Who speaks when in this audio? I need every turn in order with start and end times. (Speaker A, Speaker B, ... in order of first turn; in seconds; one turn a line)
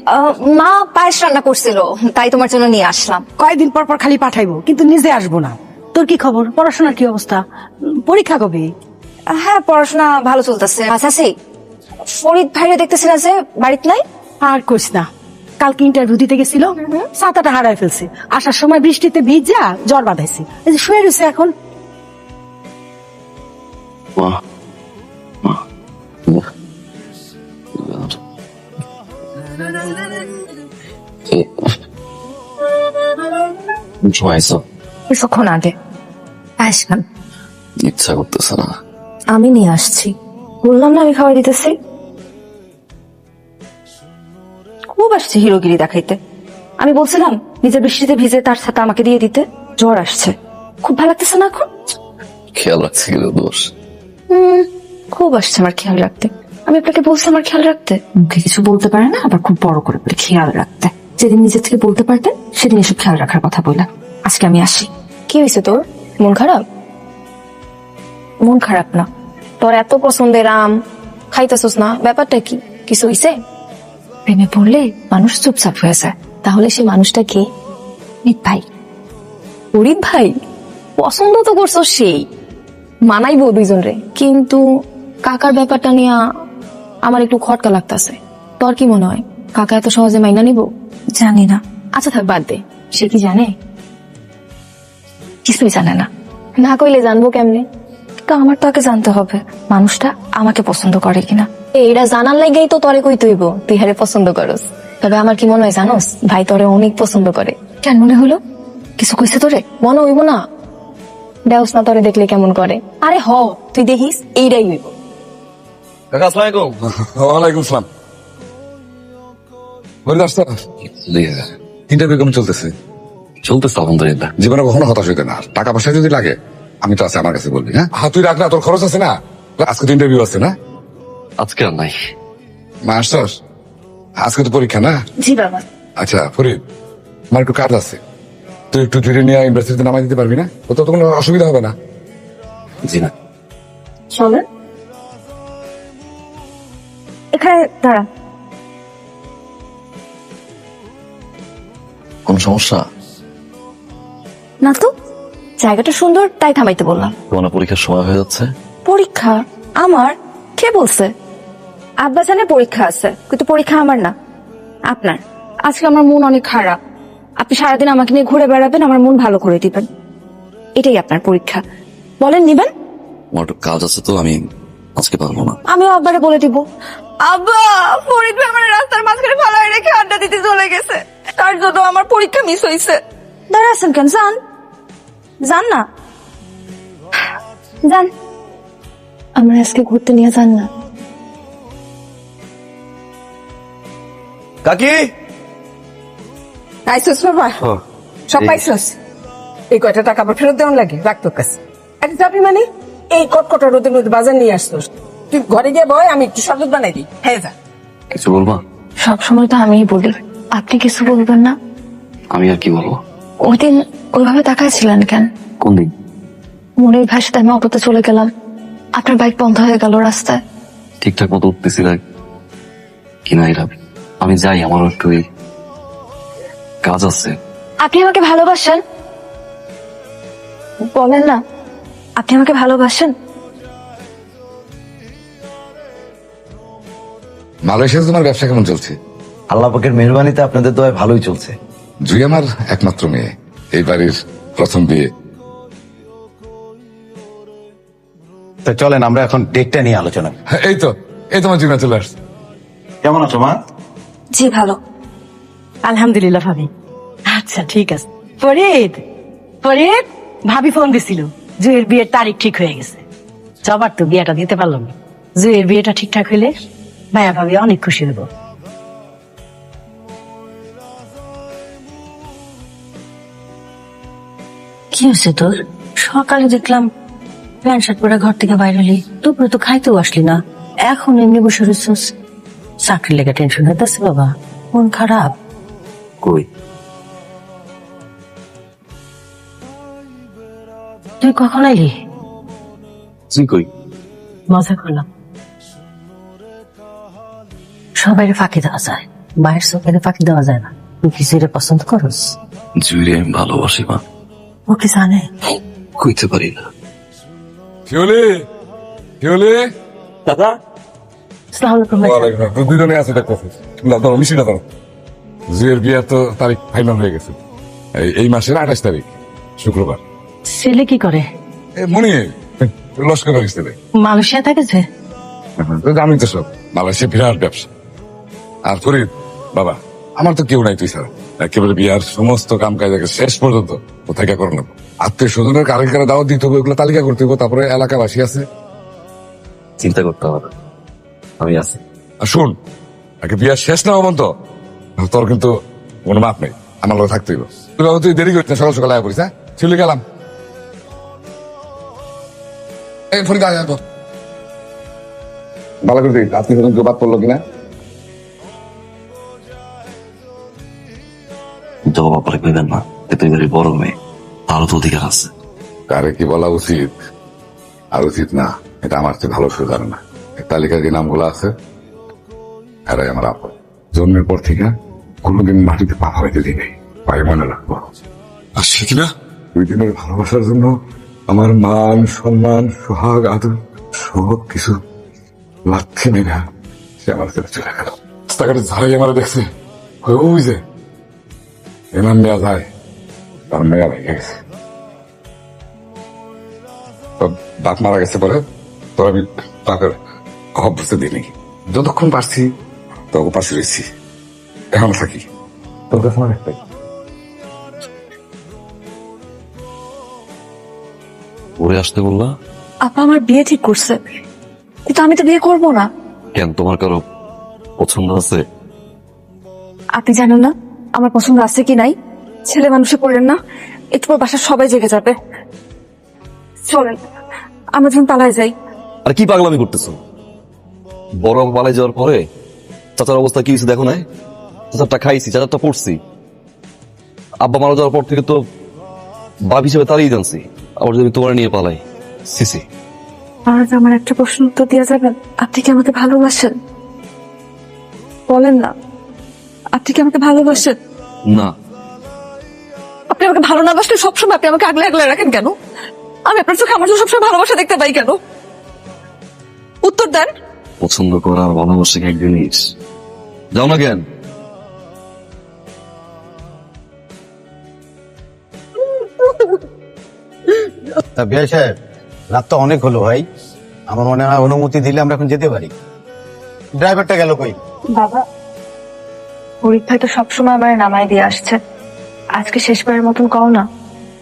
Speaker A: 0.1-3.2
Speaker B: 3.4-8.7
Speaker A: 9.3-11.3
Speaker A: 12.1-14.0
Speaker B: 14.4-15.1
Speaker B: 15.6-21.5
Speaker C: 27.8-28.2
Speaker C: 34.0-34.6
Speaker A: 35.1-35.7
Speaker A: 36.6-37.0
Speaker C: 37.8-38.7
Speaker A: 39.3-40.1
Speaker A: 40.6-41.7
Speaker A: 45.0-46.1
Speaker A: 46.8-50.3
Speaker A: 50.8-51.6
Speaker C: 52.5-53.7
Speaker A: 54.3-66.6
Speaker A: 68.5-69.0
Speaker A: 69.6-70.7
Speaker A: 71.3-73.3
Speaker A: 74.3-77.5
Speaker A: 78.2-78.6
Speaker A: 79.7-80.3
Speaker A: 81.0-82.2
Speaker A: 83.1-84.6
Speaker A: 85.2-86.2
Speaker A: 87.1-90.7
Speaker A: 91.2-93.5
Speaker A: 95.5-96.0
Speaker A: 96.6-97.6
Speaker A: 98.3-108.4
Speaker A: 109.0-110.4
Speaker A: 111.5-114.9
Speaker C: 116.1-116.8
Speaker D: 117.1-117.8
Speaker D: 120.1-120.5
Speaker C: 121.0-121.5
Speaker D: 121.9-122.7
Speaker C: 123.4-124.3
Speaker D: 124.4-130.5
Speaker C: 131.4-131.9
Speaker D: 132.8-133.3
Speaker D: 134.2-135.0
Speaker A: 135.2-135.6
Speaker D: 136.0-136.6
Speaker D: 137.3-138.0
Speaker D: 138.7-141.8
Speaker A: 147.3-148.0
Speaker C: 152.3-152.8
Speaker A: 155.6-157.1
Speaker C: 157.3-158.5
Speaker A: 158.9-161.0
Speaker A: 162.1-164.1
Speaker A: 164.9-166.7
Speaker A: 167.4-169.8
Speaker A: 170.8-171.6
Speaker A: 172.2-172.7
Speaker C: 173.3-174.4
Speaker C: 175.0-175.6
Speaker A: 175.7-176.6
Speaker A: 177.2-182.9
Speaker A: 183.5-184.3
Speaker A: 185.5-185.8
Speaker A: 189.4-190.7
Speaker C: 194.7-195.1
Speaker E: 196.9-197.5
Speaker E: 198.3-198.9
Speaker E: 199.7-207.5
Speaker C: 208.1-208.6
Speaker A: 209.1-211.5
Speaker C: 212.3-213.0
Speaker A: 213.4-215.2
Speaker C: 215.6-215.9
Speaker A: 216.8-218.2
Speaker A: 219.0-220.3
Speaker C: 221.0-222.0
Speaker C: 223.2-225.2
Speaker C: 226.8-227.3
Speaker A: 227.8-228.8
Speaker A: 230.9-231.3
Speaker A: 232.2-233.1
Speaker D: 237.7-239.0
Speaker F: 239.5-241.5
Speaker D: 242.0-245.1
Speaker G: 248.7-250.3
Speaker D: 250.5-252.1
Speaker G: 253.0-253.6
Speaker A: 254.3-254.7
Speaker B: 255.8-256.7
Speaker B: 257.3-259.0
Speaker B: 259.6-263.0
Speaker B: 263.6-266.5
Speaker B: 267.1-268.3
Speaker B: 274.9-276.9
Speaker B: 277.6-282.1
Speaker B: 282.8-285.3
Speaker B: 291.2-291.9
Speaker C: 293.3-293.7
Speaker B: 294.5-295.0
Speaker B: 298.0-302.4
Speaker C: 302.8-304.0
Speaker B: 304.7-305.3
Speaker C: 306.0-306.6
Speaker D: 307.9-308.4
Speaker D: 309.2-309.7
Speaker C: 310.3-310.5
Speaker B: 311.5-312.3
Speaker D: 311.9-314.6
Speaker D: 315.5-317.4
Speaker D: 318.0-320.0
Speaker B: 320.5-321.2
Speaker D: 321.8-323.8
Speaker B: 324.0-324.8
Speaker D: 325.6-327.7
Speaker D: 328.7-338.4
Speaker C: 339.8-340.5
Speaker C: 341.4-341.8
Speaker D: 342.2-342.5
Speaker D: 343.2-344.3
Speaker D: 345.0-345.5
Speaker D: 346.1-350.0
Speaker D: 353.1-353.8
Speaker D: 355.9-357.4
Speaker C: 361.9-363.9
Speaker C: 364.5-365.3
Speaker D: 365.9-366.9
Speaker D: 367.9-371.5
Speaker D: 372.9-377.8
Speaker D: 378.6-380.7
Speaker D: 381.3-384.8
Speaker D: 385.7-386.4
Speaker D: 387.0-389.5
Speaker D: 390.0-390.6
Speaker D: 391.9-392.7
Speaker D: 393.5-394.4
Speaker D: 397.2-398.4
Speaker D: 399.0-400.0
Speaker D: 400.6-402.5
Speaker D: 403.1-403.8
Speaker D: 404.7-405.2
Speaker D: 405.9-406.6
Speaker C: 411.6-412.3
Speaker A: 412.9-413.9
Speaker A: 414.9-415.8
Speaker C: 416.4-417.0
Speaker C: 417.8-418.4
Speaker A: 420.0-421.9
Speaker A: 422.5-423.4
Speaker A: 424.0-425.1
Speaker A: 426.7-426.9
Speaker A: 427.8-428.5
Speaker C: 429.0-430.0
Speaker C: 431.2-432.2
Speaker C: 433.0-434.0
Speaker C: 434.7-436.0
Speaker C: 437.4-438.4
Speaker C: 439.5-442.6
Speaker A: 443.5-446.5
Speaker A: 448.3-448.7
Speaker A: 449.8-450.8
Speaker A: 453.1-455.5
Speaker A: 456.3-458.1
Speaker A: 459.8-460.3
Speaker C: 460.8-462.6
Speaker C: 463.5-464.0
Speaker G: 471.1-471.7
Speaker G: 472.3-473.2
Speaker G: 473.9-475.7
Speaker G: 476.8-477.5
Speaker A: 479.7-481.5
Speaker A: 482.4-483.6